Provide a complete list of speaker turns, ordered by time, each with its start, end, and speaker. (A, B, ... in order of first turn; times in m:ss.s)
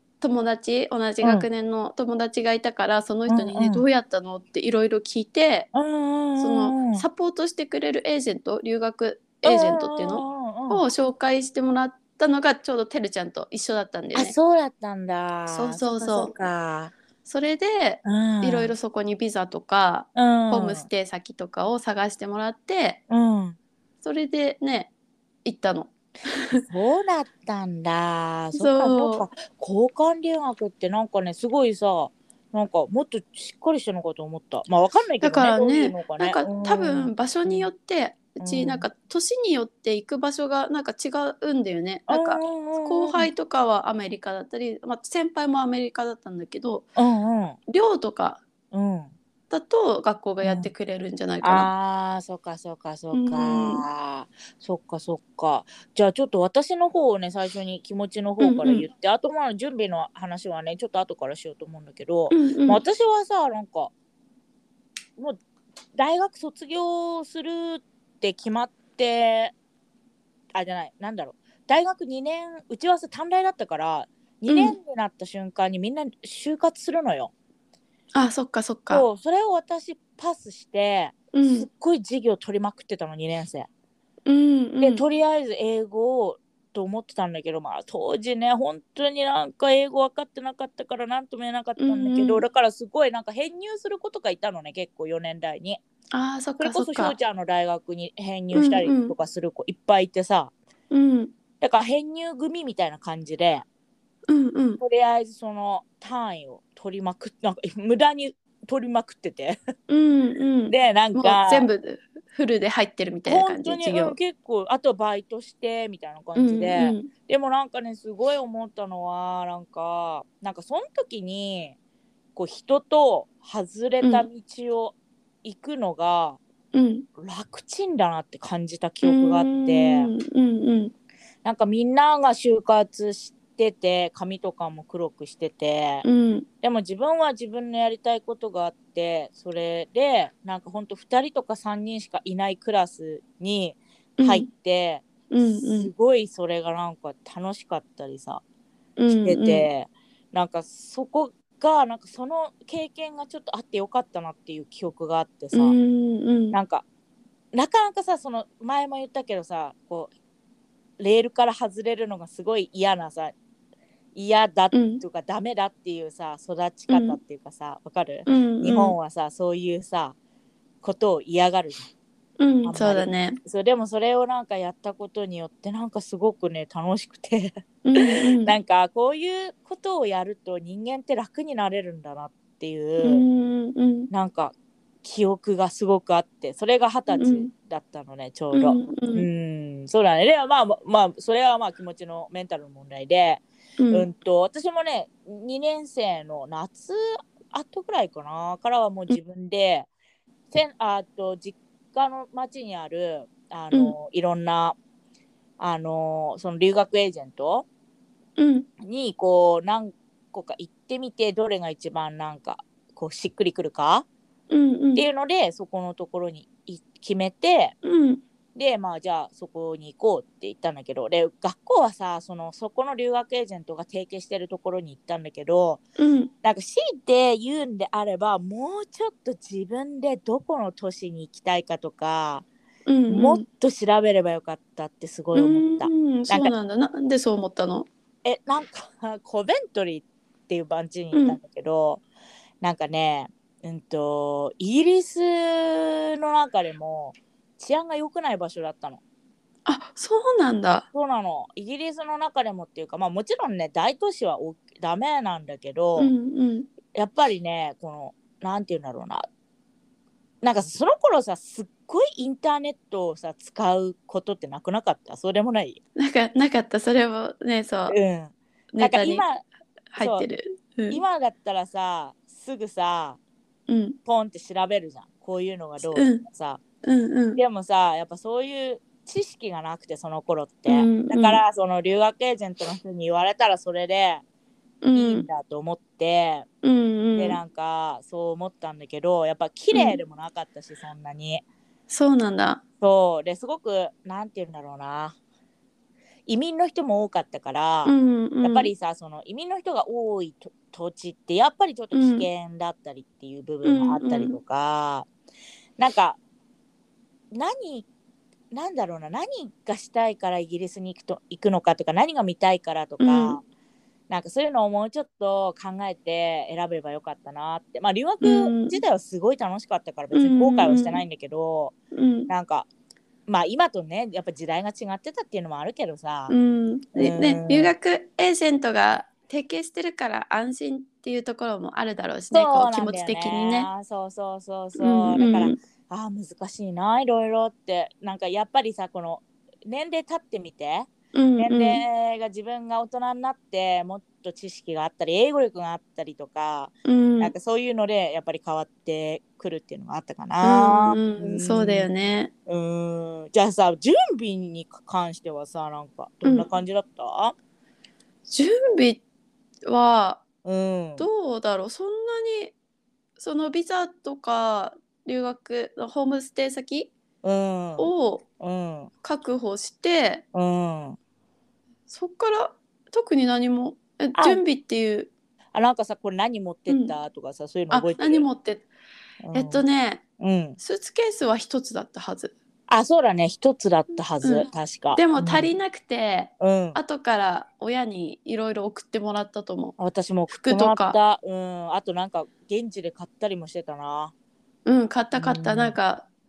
0:00.2-0:05.7 A
0:03.3-0:03.8 B
0:05.7-0:07.0 B
0:06.4-0:14.4 A
0:09.4-0:10.8 B
0:14.1-0:16.9 B
0:15.5-0:16.3 A
0:17.2-0:23.0 A
0:18.0-0:18.7 B
0:20.2-0:20.9 B
0:23.1-0:23.6 B
0:24.0-0:24.9 A
0:25.4-0:26.6 A
0:26.5-0:37.7 B
0:28.5-0:29.2 A
0:35.2-0:46.9 A
0:38.4-0:38.8 B
0:42.1-0:43.3 B
0:47.0-0:47.6 B
0:47.7-0:48.4 A
0:48.7-0:49.1 B
0:49.5-0:51.7 A
0:50.4-0:50.7 B
0:51.4-1:03.9 B
0:53.1-0:53.8 A
0:58.4-0:58.9 A
1:02.3-1:02.8 A
1:06.0-1:09.5 B
1:10.5-1:17.3 B
1:14.5-1:14.8 A
1:18.2-1:19.0 A
1:18.9-1:23.7 B
1:21.3-1:21.7 A
1:24.3-1:25.0 A
1:24.8-1:35.8 B
1:31.8-1:32.4 A
1:36.1-1:37.2 A
1:36.6-1:40.5 B
1:38.5-1:39.1 A
1:40.9-1:41.3 A
1:41.6-1:43.6 B
1:44.3-1:44.8 A
1:44.8-1:49.6 B
1:49.9-1:54.2 A
1:50.7-1:51.7 B
1:53.3-2:01.8 B
1:56.4-1:57.1 A
2:02.4-2:06.4 B
2:04.0-2:04.3 A
2:06.7-2:07.1 A
2:07.2-2:10.1 B
2:09.0-2:10.9 A
2:11.4-2:16.0 B
2:16.0-2:16.5 A
2:16.6-2:28.4 B
2:24.2-2:24.5 A
2:25.3-2:25.9 A
2:29.0-2:29.7 A
2:29.2-2:35.8 B
2:35.5-2:36.6 A
2:36.5-2:36.8 B
2:37.5-2:40.1 B
2:41.0-2:43.3 B
2:44.2-2:50.2 B
2:44.7-2:45.0 A
2:46.9-2:47.2 A
2:48.3-2:49.0 A
2:50.8-2:51.9 B
2:52.4-2:53.4 A
2:52.6-3:03.3 B
2:57.8-2:58.6 A
3:03.0-3:04.1 A
3:04.1-3:19.9 B
3:07.1-3:07.5 A
3:08.5-3:09.3 A
3:13.8-3:14.1 A
3:20.5-3:24.8 B
3:25.6-3:27.7 B
3:28.4-3:28.7 A
3:28.8-3:34.1 B
3:34.5-3:35.1 A
3:35.0-3:37.8 B
3:37.8-3:38.2 A
3:38.6-3:45.8 B
3:46.0-3:46.3 A
3:46.4-3:52.4 B
3:52.9-3:53.4 A
3:53.1-3:56.5 B
3:55.3-3:57.9 A
3:58.2-4:02.0 B
4:01.1-4:01.4 A
4:02.6-4:09.0 B
4:09.7-4:10.9 A
4:10.9-4:16.1 B
4:16.0-4:16.7 A
4:16.9-4:19.3 B
4:20.4-4:25.8 B
4:26.0-4:28.0 A
4:27.9-4:29.4 B
4:28.7-4:29.3 A
4:29.9-4:31.0 A
4:30.0-4:30.3 B
4:30.9-4:33.2 B
4:33.7-4:34.0 A
4:34.0-4:36.6 B
4:35.9-4:36.3 A
4:36.8-4:37.4 A
4:37.4-4:44.2 B
4:40.7-4:41.4 A
4:44.8-4:45.3 A
4:45.0-4:46.5 B
4:46.6-4:47.4 A
4:47.2-4:51.4 B
4:49.7-4:50.0 A
4:51.9-4:52.6 A
4:52.8-4:55.2 B
4:56.3-5:05.1 B
4:57.8-4:58.7 A
5:01.9-5:02.3 A
5:03.6-5:04.4 A
5:05.8-5:06.2 B
5:07.3-5:07.9 B
5:08.5-5:13.4 B
5:13.0-5:13.4 A
5:14.1-5:21.7 B
5:18.2-5:18.8 A
5:20.1-5:21.0 A
5:21.9-5:22.3 A
5:22.3-5:22.7 B
5:23.3-5:26.3 B
5:26.3-5:33.7 A
5:27.0-5:27.7 B
5:32.3-5:51.9 B
5:34.8-5:35.6 A
5:41.1-5:41.8 A
5:46.9-5:47.3 A
5:50.4-5:52.3 A
5:52.5-5:57.4 B
5:56.2-5:56.5 A
5:58.3-5:59.0 A
5:59.7-6:00.2 A
6:00.4-6:01.1 B
6:01.0-6:02.6 A
6:03.2-6:06.9 A
6:07.2-6:08.9 B
6:07.8-6:08.2 A
6:09.0-6:10.2 A
6:10.3-6:11.0 B
6:11.9-6:15.1 A
6:14.2-6:14.4 B
6:15.5-6:18.3 B
6:16.7-6:16.9 A
6:17.7-6:18.6 A
6:19.2-6:19.6 B
6:19.3-6:20.0 A
6:20.2-6:20.6 B
6:20.6-6:22.3 A
6:22.7-6:25.5 B
6:24.2-6:29.8 A
6:26.4-6:26.8 B
6:29.8-6:34.1 B
6:30.3-6:31.0 A
6:34.7-6:36.1 A
6:35.2-6:35.8 B